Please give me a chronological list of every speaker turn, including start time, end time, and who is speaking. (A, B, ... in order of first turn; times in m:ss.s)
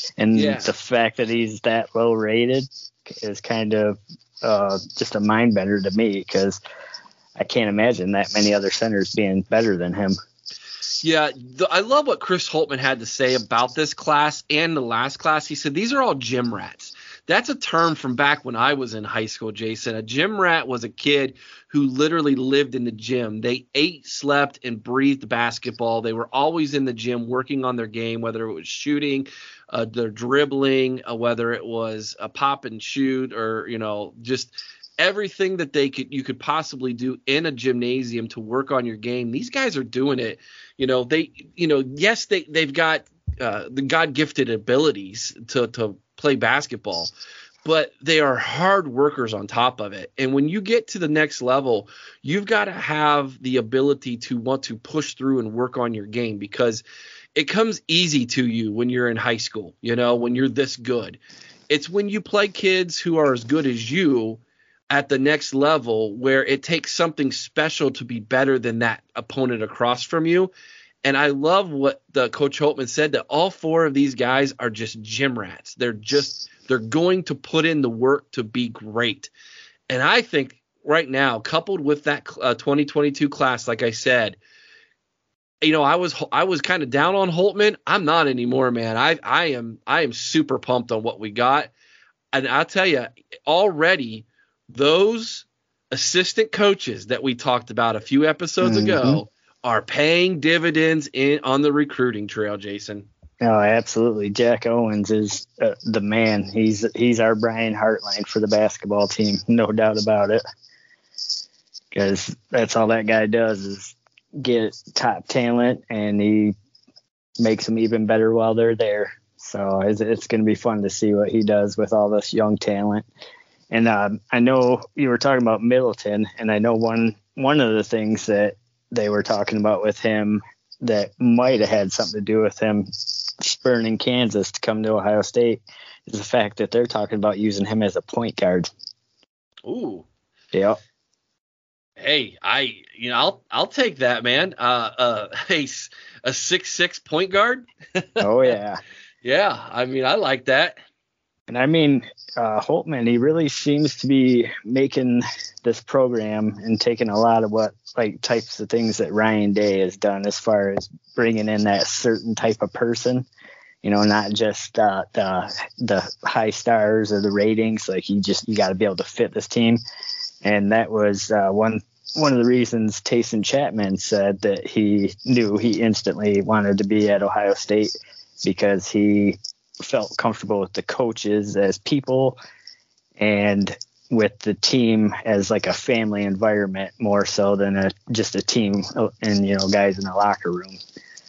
0:00.2-0:06.6 A
0:00.3-0:00.7 B
0:07.4-0:10.2 A
0:11.0-0:47.1 B
0:47.6-0:56.8 B
0:57.3-1:10.5 B
1:11.0-1:19.3 B
1:19.9-1:24.4 B
1:25.6-1:31.7 B
1:32.3-1:43.1 B
1:38.6-1:39.2 A
1:43.4-1:50.4 A
1:51.9-1:56.5 A
1:57.4-2:03.0 A
2:03.7-2:18.7 A
2:19.6-2:20.1 B
2:20.5-2:20.8 A
2:22.0-2:28.2 B
2:28.2-2:28.8 A
2:29.2-2:30.8 B
2:31.5-2:43.3 A
2:43.8-2:49.8 A
2:50.4-2:57.9 A
2:58.4-3:02.4 A
3:03.2-3:10.8 A